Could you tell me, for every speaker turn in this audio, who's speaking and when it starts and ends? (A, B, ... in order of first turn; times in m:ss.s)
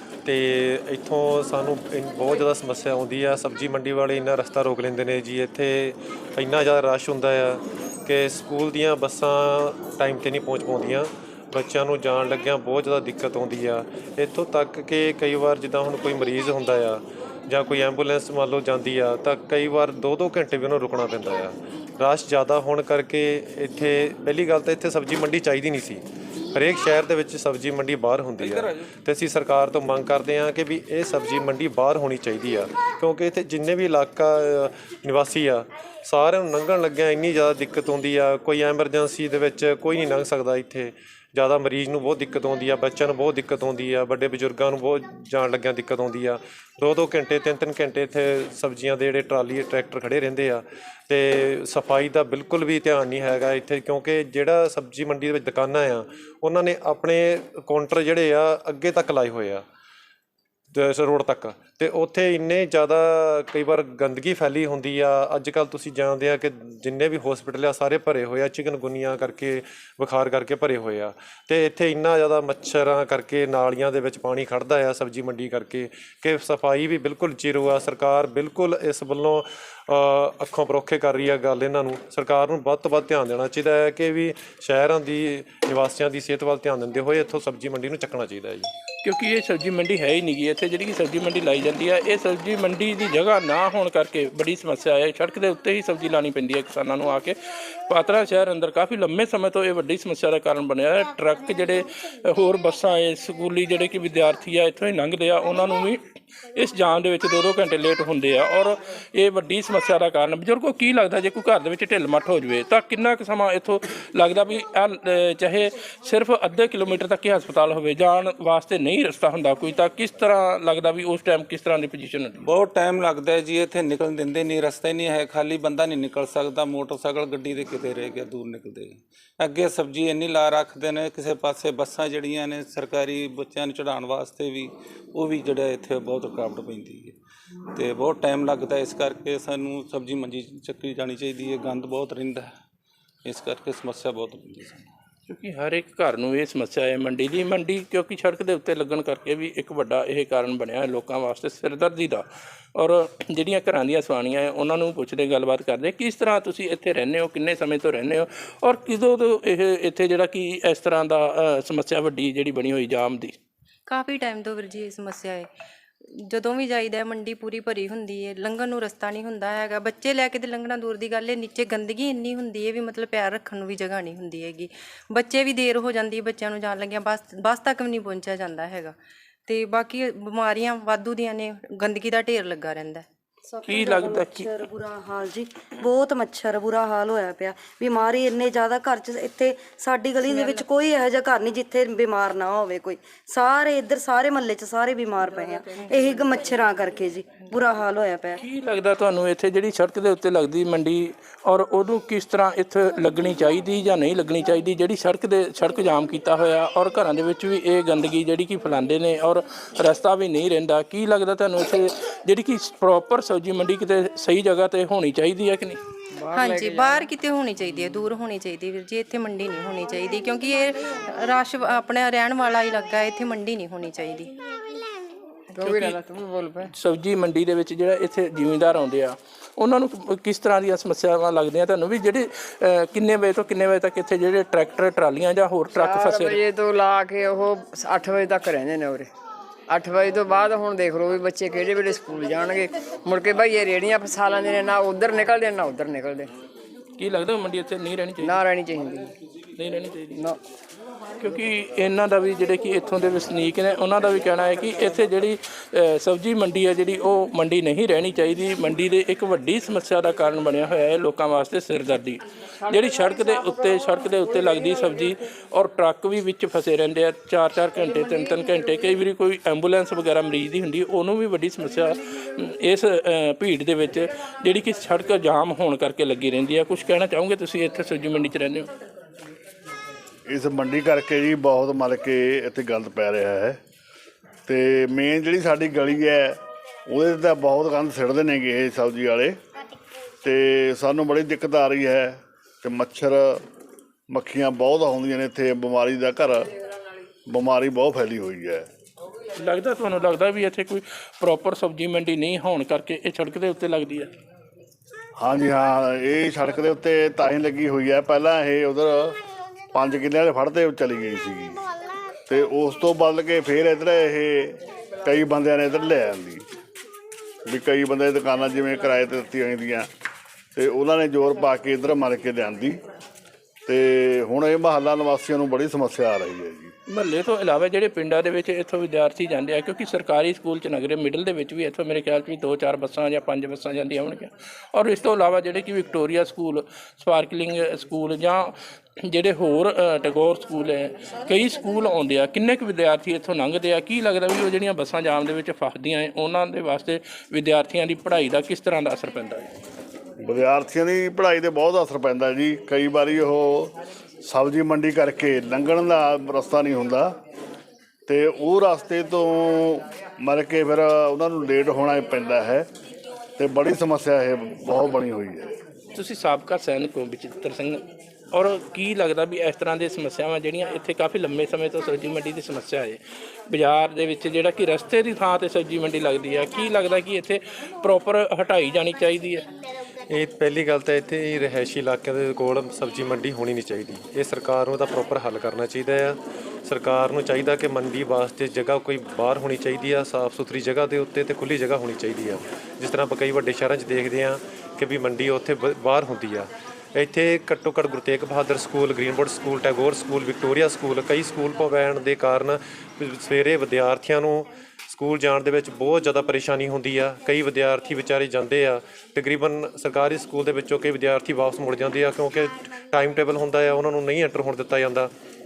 0:00.2-0:59.6 A
1:00.7-1:28.7 A
1:29.0-2:02.4 B
2:02.4-2:17.2 C
2:17.7-2:22.5 C
2:23.2-2:24.9 C
2:25.3-2:43.4 B
2:43.9-2:45.5 D
2:46.0-2:58.9 D
2:59.5-3:03.0 D
3:03.5-3:18.4 E
3:03.6-3:04.7 B
3:10.2-3:10.6 D
3:18.4-3:35.8 B
3:36.2-3:37.1 F
3:36.3-3:44.3 D
3:45.5-3:46.7 F
3:45.6-3:46.0 B
3:46.7-3:56.4 B
3:55.8-3:59.1 F
3:59.7-4:06.3 F
4:07.0-4:08.4 B
4:08.2-4:09.1 F
4:09.6-4:10.2 B
4:11.2-4:38.7 B
4:40.3-4:43.6 G
4:44.5-4:49.4 G
4:50.2-4:53.4 G
4:54.1-4:56.5 G
4:57.3-4:58.6 G
4:59.4-5:04.1 B
5:05.2-5:09.2 G
5:09.7-5:11.6 G
5:12.2-5:16.4 G
5:17.5-5:19.9 G
5:20.6-5:22.8 G
5:23.7-5:26.7 G
5:26.9-5:49.5 B
5:50.2-5:53.7 G
5:54.2-5:57.1 G
5:58.1-6:02.7 G
6:03.4-6:05.5 G
6:05.9-6:19.5 B
6:20.1-6:55.1 A